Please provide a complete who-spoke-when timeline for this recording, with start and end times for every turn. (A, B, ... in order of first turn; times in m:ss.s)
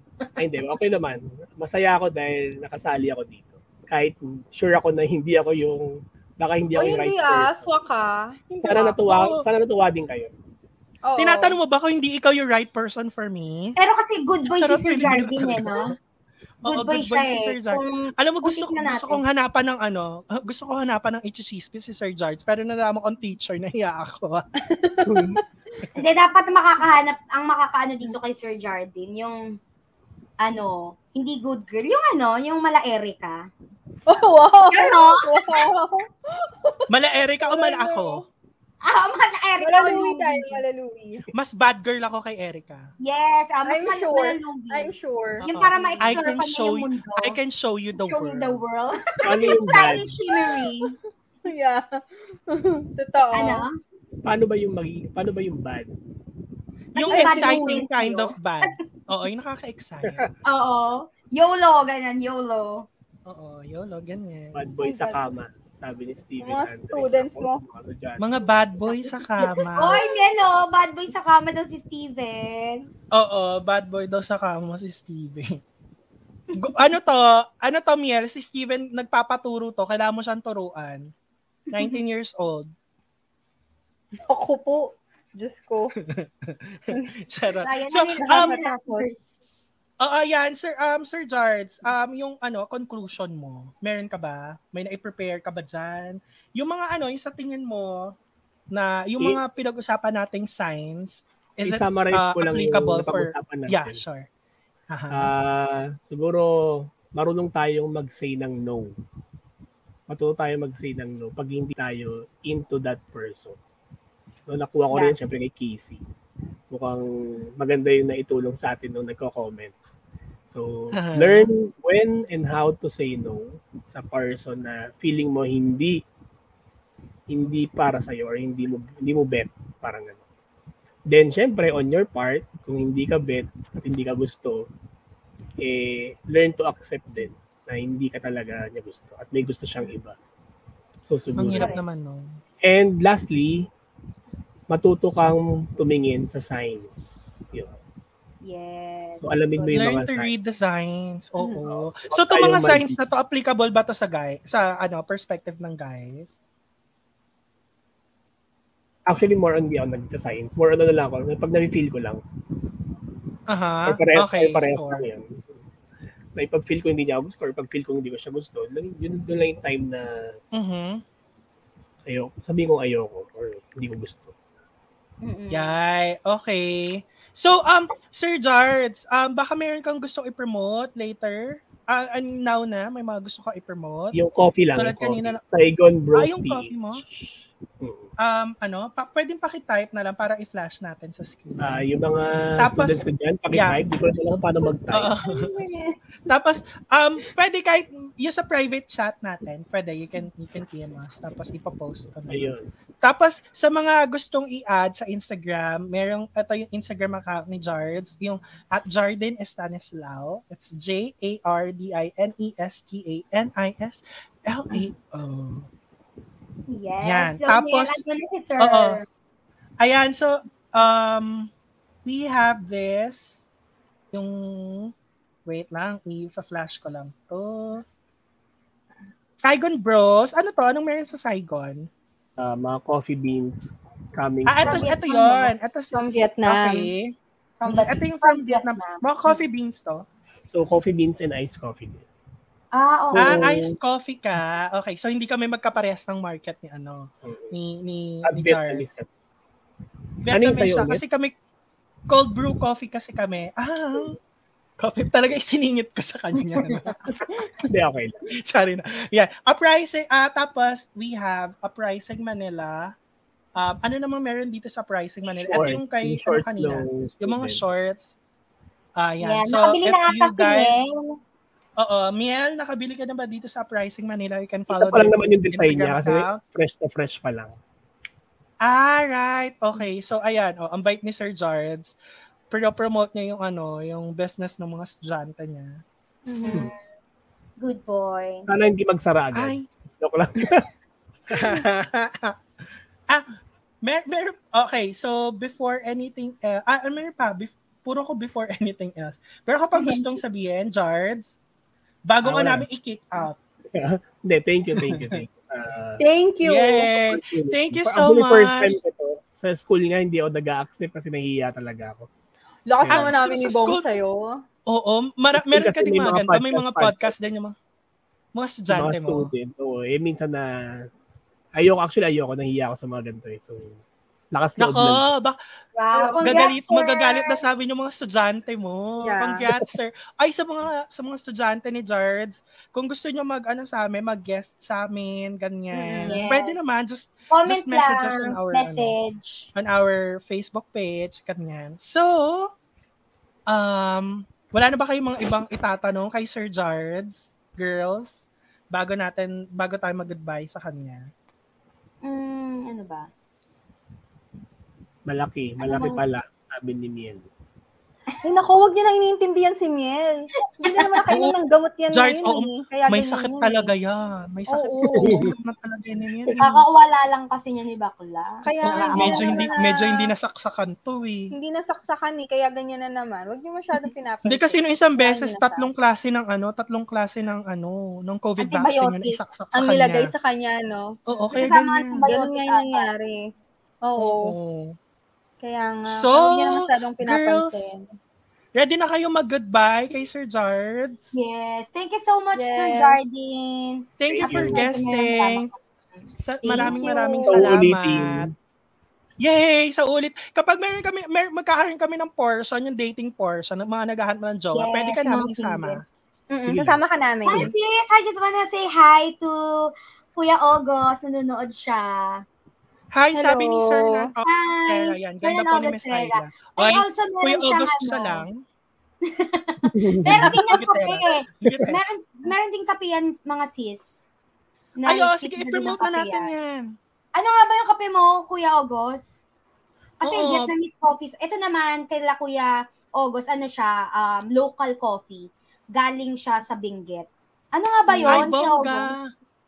0:00.3-0:07.7 A
0:06.8-0:08.9 B
0:08.5-0:09.4 C
0:08.6-0:10.3 A
0:11.0-0:11.6 B
0:11.2-0:13.8 C
0:13.8-0:15.9 D
0:14.6-0:16.0 C
0:16.6-0:24.4 C
0:16.6-0:19.2 D
0:24.6-0:25.4 B
0:25.0-0:25.4 A
0:25.9-0:29.5 D
0:30.4-0:33.4 D
0:34.1-0:36.8 B
0:34.7-0:35.7 D
0:36.9-0:38.2 C
0:37.4-0:38.2 B
0:38.8-0:40.6 D
0:39.6-0:41.2 B
0:41.3-0:42.9 C
0:43.0-0:44.9 D
0:43.6-0:46.2 B
0:45.4-0:48.6 C
0:45.5-0:47.4 D
0:48.0-0:50.9 D
0:49.2-0:50.2 A
0:50.3-0:50.9 B
0:51.4-0:53.6 B
0:53.3-0:53.7 D
0:54.2-0:55.9 A
0:56.9-1:00.3 C
0:57.0-0:58.7 D
0:57.1-0:57.9 B
1:00.4-1:02.9 D
1:03.2-1:04.6 C
1:04.5-1:08.5 A
1:04.8-1:05.2 B
1:06.4-1:07.6 B
1:08.2-1:10.0 C
1:09.8-1:12.9 D
1:13.1-1:15.6 C
1:16.6-1:21.1 C
1:21.7-1:22.7 C
1:24.3-1:25.9 B
1:26.1-1:28.6 C
1:27.6-1:29.2 D
1:28.3-1:29.1 B
1:30.0-1:38.1 C
1:38.7-1:44.3 C
1:41.6-1:44.0 A
1:44.9-1:45.3 C
1:45.1-1:48.9 A
1:50.1-1:53.6 A
1:54.5-1:56.0 A
1:56.7-1:59.7 A
2:00.5-2:06.0 A
2:00.9-2:01.5 C
2:07.3-2:10.2 A
2:11.1-2:14.7 A
2:15.6-2:20.2 A
2:21.0-2:21.7 A
2:21.4-2:22.3 C
2:21.5-2:21.8 D
2:22.6-2:23.7 A
2:24.7-2:27.8 A
2:28.4-2:29.9 D
2:29.2-2:30.3 A
2:29.7-2:36.3 C
2:31.7-2:33.0 A
2:39.1-2:42.2 A
2:43.5-2:45.0 C
2:43.9-2:45.4 A
2:46.4-2:50.4 A
2:50.5-2:51.0 C
2:52.0-2:54.3 A
2:55.2-2:55.8 D
2:55.5-3:04.2 C
3:04.1-3:08.1 A
3:04.8-3:05.4 C
3:06.1-3:07.0 C
3:08.2-3:11.8 C
3:11.6-3:15.1 A
3:12.6-3:13.0 C
3:13.5-3:13.8 C
3:14.9-3:15.6 C
3:15.2-3:16.0 B
3:16.3-3:22.5 C
3:22.3-3:22.7 A
3:23.0-3:35.7 C
3:36.7-3:39.0 D
3:37.0-3:38.0 C
3:38.6-3:39.0 C
3:39.8-3:41.5 C
3:42.0-3:43.4 C
3:44.1-3:44.9 C
3:45.4-3:47.8 C
3:49.4-3:51.9 C
3:52.4-3:54.9 A
3:54.5-4:00.0 C
3:54.6-3:55.5 D
3:55.9-3:56.9 B
3:57.6-3:59.4 D
4:00.4-4:02.0 A
4:02.7-4:03.5 D
4:03.1-4:03.8 A
4:03.2-4:08.9 C
4:07.2-4:07.5 A
4:08.2-4:09.1 A
4:10.2-4:11.3 C
4:10.3-4:11.0 A
4:12.1-4:14.2 C
4:14.8-4:17.5 C
4:17.0-4:18.3 A
4:18.3-4:22.9 C
4:23.6-4:28.1 C
4:25.3-4:27.6 A
4:29.0-4:30.9 C
4:29.2-4:31.2 D
4:31.8-4:36.4 C
4:34.7-4:37.5 A
4:38.6-4:41.9 C
4:42.5-4:45.8 C
4:46.3-4:46.7 B
4:46.4-4:46.8 D
4:47.6-4:48.5 D
4:48.5-4:50.7 A
4:49.3-4:49.6 C
4:51.3-4:52.4 C
4:53.8-5:01.4 C
4:59.8-5:00.1 D
5:02.1-5:03.4 C
5:02.2-5:02.6 A
5:03.7-5:06.0 A
5:04.7-5:05.2 C
5:06.0-5:06.9 B
5:06.4-5:08.8 C
5:06.9-5:12.1 A
5:12.7-5:14.4 B
5:12.8-5:13.2 A
5:12.9-5:13.8 C
5:14.7-5:17.5 C
5:15.3-5:17.1 A
5:18.3-5:19.3 C
5:18.7-5:20.5 A
5:21.6-5:23.8 A
5:24.3-5:25.0 A
5:24.6-5:25.4 C
5:25.8-5:27.4 D
5:25.9-5:26.5 B
5:26.2-5:38.9 C
5:29.0-5:29.4 B
5:35.7-5:36.2 B
5:36.0-5:36.6 D
5:37.3-5:39.5 D
5:39.5-5:42.5 C
5:43.5-5:51.1 C
5:52.0-5:53.1 D
5:55.1-5:57.2 A
5:55.6-5:56.0 D
5:58.2-6:03.7 B
6:00.4-6:01.0 D
6:01.9-6:06.5 C
6:04.5-6:05.2 B
6:06.4-6:09.6 D
6:08.4-6:10.1 B
6:08.7-6:11.3 C
6:11.3-6:15.7 B
6:14.2-6:20.1 C
6:18.4-6:19.2 D
6:19.5-6:20.9 B
6:21.1-6:22.0 C
6:21.3-6:23.0 D
6:22.0-6:23.3 B
6:23.8-6:24.4 B
6:24.0-6:24.8 C
6:25.4-6:27.8 B
6:25.9-6:27.7 C
6:28.5-6:31.1 C
6:31.1-6:37.2 D
6:32.3-6:33.0 B
6:34.0-6:35.5 C
6:34.0-6:34.7 A
6:36.2-6:38.3 C
6:36.6-6:37.4 B
6:37.3-6:38.3 A
6:39.2-6:45.8 C
6:44.5-6:45.8 D
6:46.3-6:47.4 B
6:46.4-6:47.5 A
6:47.2-6:52.2 D
6:52.9-6:58.4 C
6:53.1-6:54.1 B
6:54.2-6:58.2 D
6:59.0-7:04.0 D
6:59.7-7:00.6 A
7:00.1-7:01.8 C
7:04.8-7:06.3 D
7:04.8-7:06.7 C
7:07.1-7:09.2 D
7:10.0-7:18.9 D
7:10.0-7:10.5 C
7:17.9-7:18.3 B
7:18.1-7:19.0 C